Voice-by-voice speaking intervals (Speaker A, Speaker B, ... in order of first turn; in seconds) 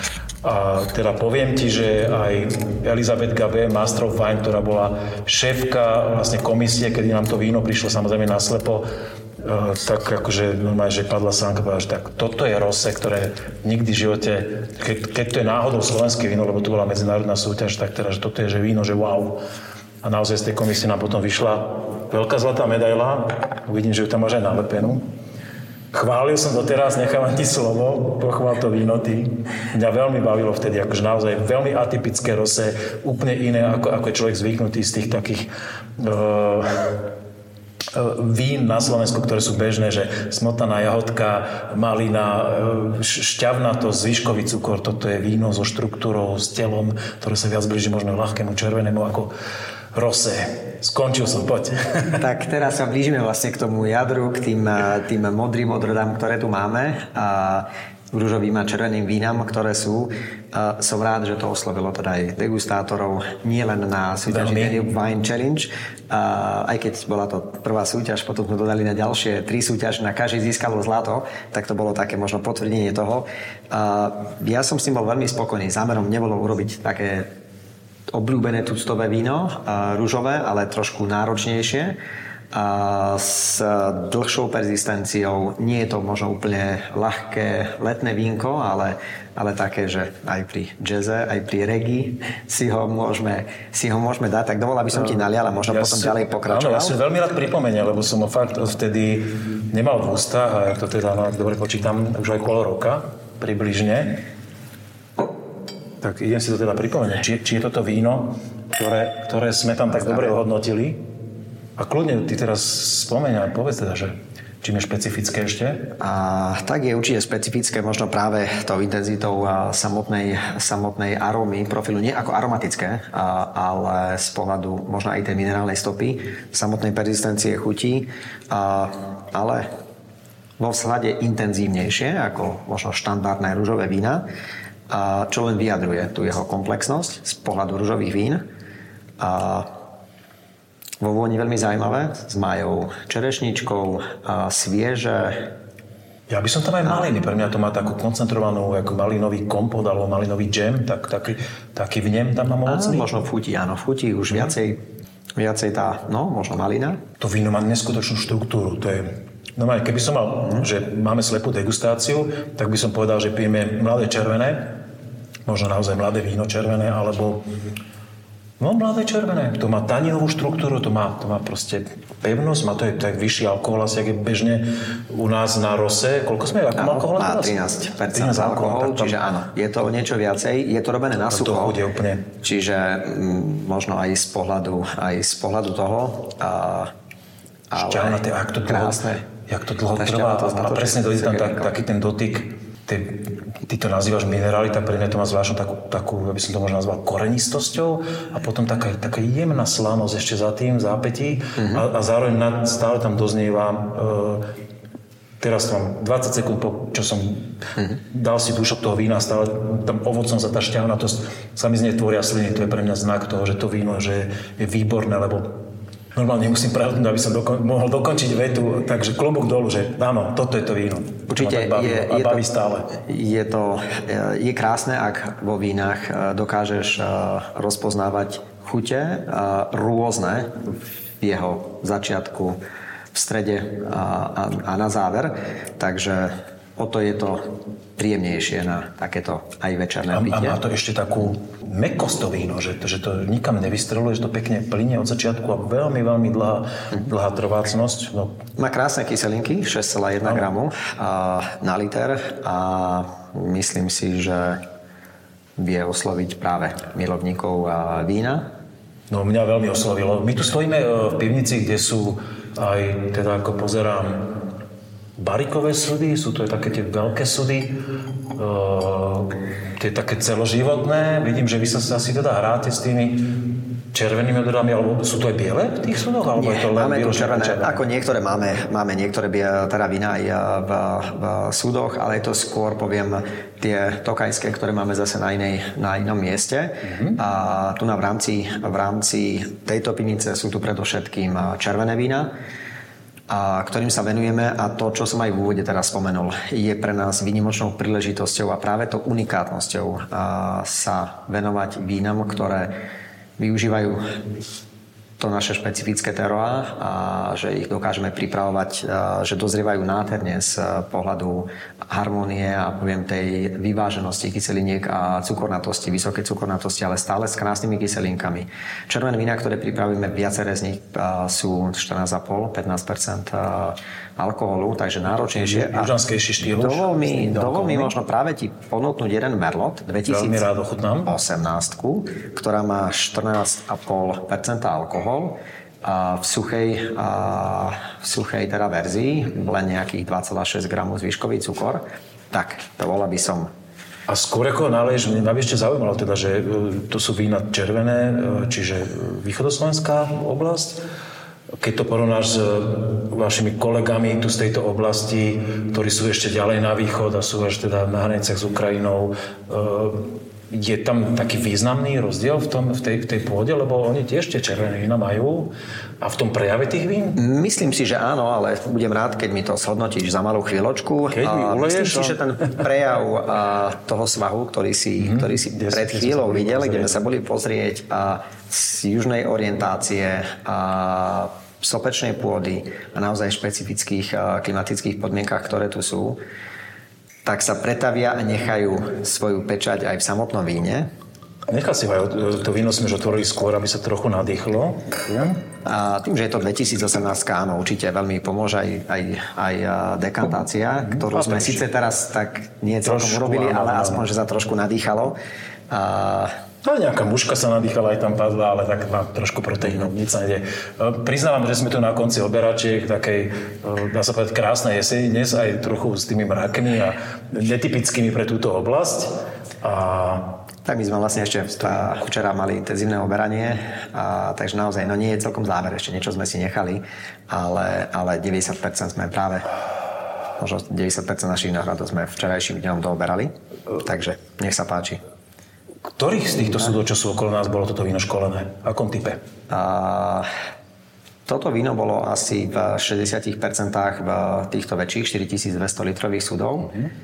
Speaker A: 0.4-8.9, 9.4-19.4, 20.0-25.1, 25.9-37.0, 37.9-49.3, 49.9-52.2, 64.3-64.8, 95.0-104.2, 106.0-111.0, 111.8-115.9, 146.3-153.1, 157.2-164.8, 165.5-167.5, 168.6-179.2, 181.3-182.3, 187.8-204.5, 205.4-215.6, 216.2-222.9, 240.1-248.4, 259.1-264.4, 265.2-267.8, 268.3-277.8, 286.8-287.2, 325.3-327.9, 330.1-331.1, 344.1-350.8, 351.6-367.2, 371.1-372.6, 375.0-377.0, 391.5-395.4, 400.9-401.7, 402.8-404.1, 406.6-420.4, 435.9-439.2
Speaker B: 52.2-77.3, 78.1-82.0, 82.5-97.0, 116.0-129.7, 130.6-134.3, 134.9-138.4, 139.2-139.7, 141.0-145.5, 152.7-154.8, 155.4-157.0, 176.8-186.9, 187.7-189.2, 190.0-191.8, 221.3-232.6, 233.1-240.6, 248.6-254.6, 255.6-258.5, 276.4-292.3, 293.3-302.7, 303.4-304.2, 305.2-330.5, 331.1-343.5, 367.2-386.2, 387.2-390.9, 395.6-405.2, 405.7-406.3, 420.6-429.5, 430.4-435.0, 439.5-440.3, 441.3-446.7